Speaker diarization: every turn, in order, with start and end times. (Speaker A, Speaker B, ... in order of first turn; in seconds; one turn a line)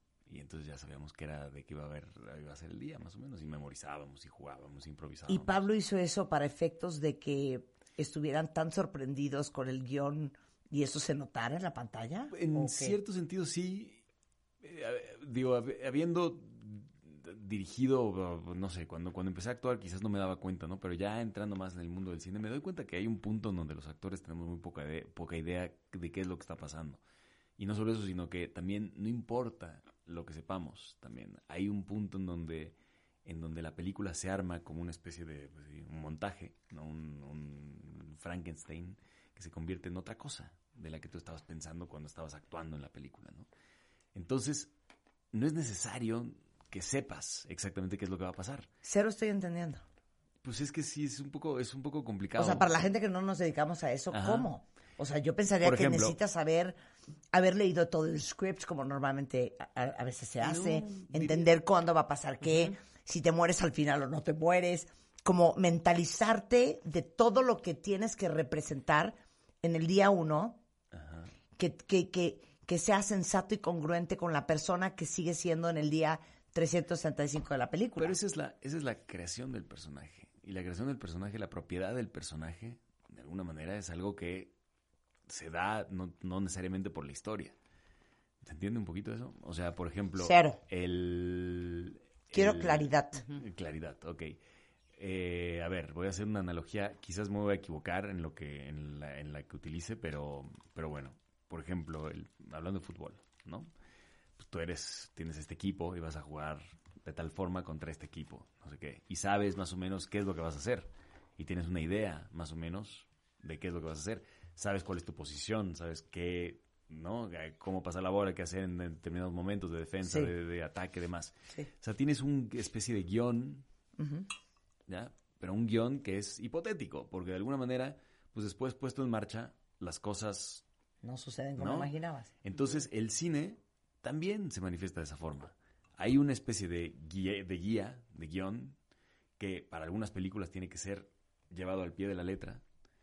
Speaker A: 0.3-5.6
Speaker B: 5.3-13.0
Speaker A: 12.3-14.0
Speaker A: 14.6-27.0
Speaker A: 27.6-43.5
Speaker A: 44.1-44.7
Speaker A: 45.3-48.7
Speaker B: 48.8-49.9
Speaker A: 50.4-52.7
Speaker B: 52.4-56.8
Speaker A: 54.1-54.5
Speaker A: 55.6-56.2
Speaker B: 57.3-70.6
Speaker A: 60.4-61.5
Speaker A: 70.9-71.3
Speaker B: 71.6-78.2
Speaker A: 78.0-84.5
Speaker A: 85.3-87.5
Speaker A: 88.4-94.4
Speaker B: 90.2-90.6
Speaker B: 92.3-93.2
Speaker A: 95.0-103.7
Speaker A: 104.4-123.6
Speaker B: 120.0-120.3
Speaker B: 124.0-124.3
Speaker A: 124.9-130.6
Speaker B: 131.0-132.6
Speaker A: 131.6-138.8
Speaker A: 139.4-142.6